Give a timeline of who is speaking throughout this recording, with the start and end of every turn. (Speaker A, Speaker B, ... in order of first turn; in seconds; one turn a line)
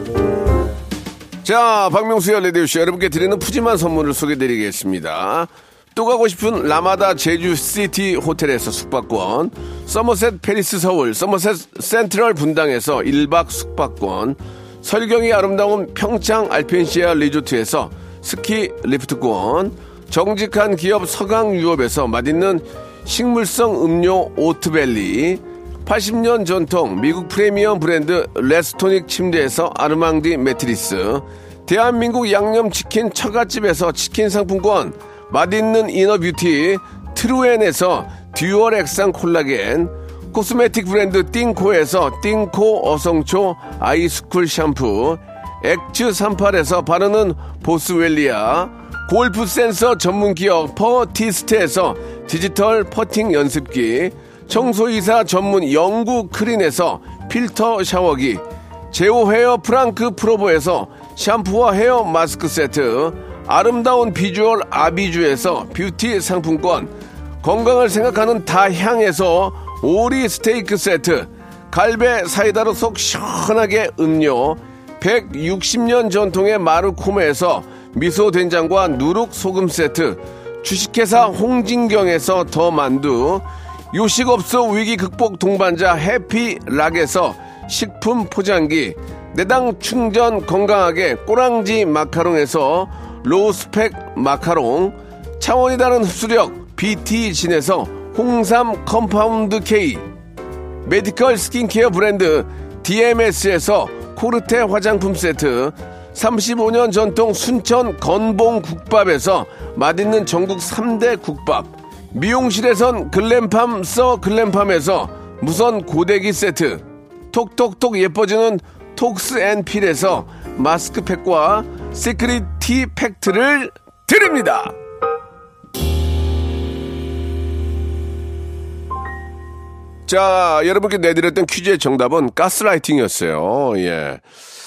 Speaker A: 1.4-100.1
Speaker A: 100.8-124.8
Speaker A: 130.1-134.2